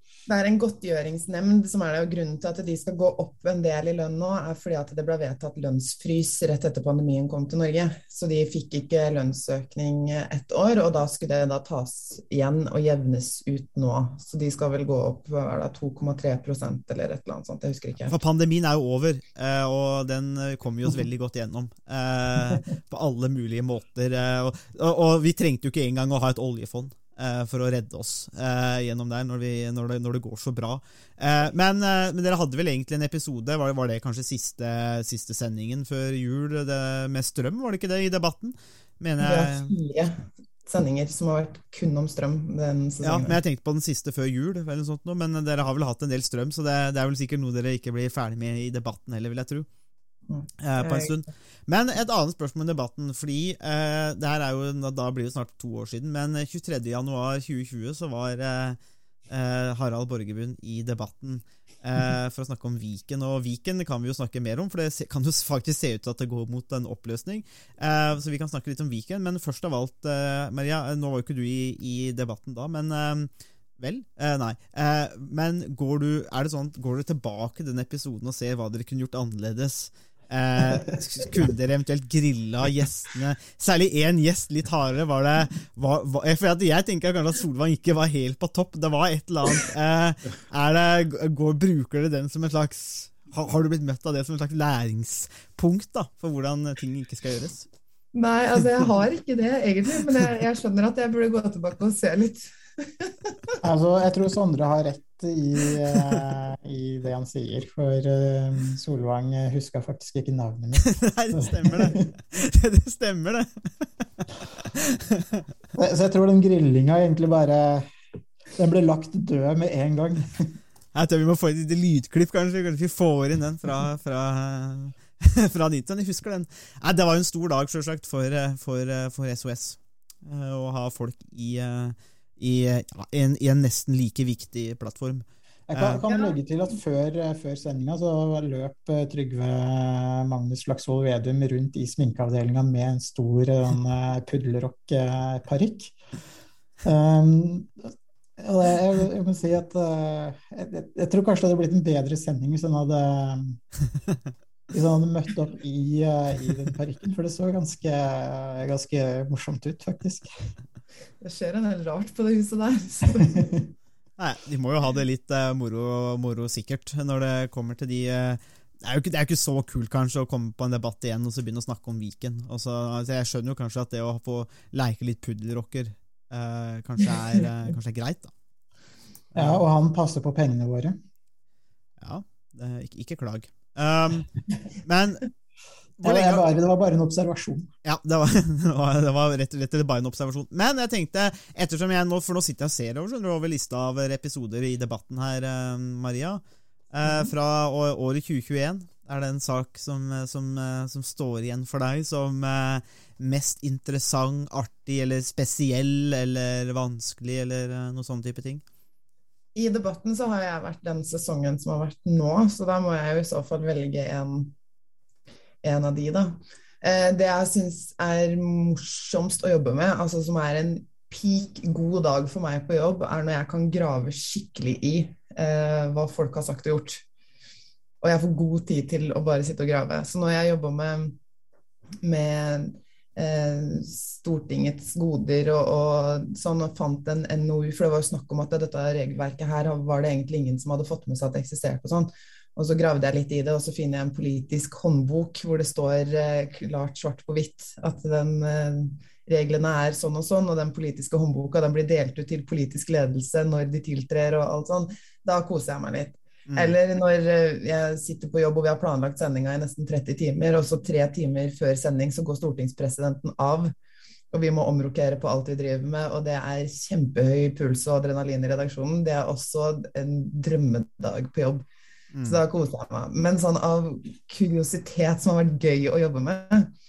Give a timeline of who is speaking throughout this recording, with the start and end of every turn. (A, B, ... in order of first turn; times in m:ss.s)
0:00.3-0:18.2 A
0:18.1-0:39.7 B
0:39.2-0:43.4 A
0:43.0-0:49.7 B
0:50.3-0:51.2 A
0:50.6-0:58.8 B
0:59.3-1:37.7 B
1:38.1-1:43.3 A
1:43.6-1:52.1 C
1:50.8-1:55.4 B
1:55.7-1:57.9 C
1:58.6-2:00.5 C
2:00.9-2:15.2 B
2:15.7-2:26.0 C
2:15.7-2:16.0 B
2:26.8-2:33.6 C
2:34.7-2:40.5 C
2:41.2-2:43.4 A
2:44.2-2:58.3 B
2:59.3-2:59.6 B
2:59.3-3:01.0 C
3:02.0-3:04.3 B
3:04.8-3:05.2 B
3:06.0-3:06.4 B
3:06.0-3:07.7 C
3:07.8-3:28.6 B
3:29.5-3:34.5 A
3:35.6-3:47.0 A
3:48.0-3:51.2 A
3:52.0-4:23.7 A
4:16.5-4:16.7 B
4:24.3-4:31.6 A
4:32.1-4:32.4 B
4:32.2-4:36.7 A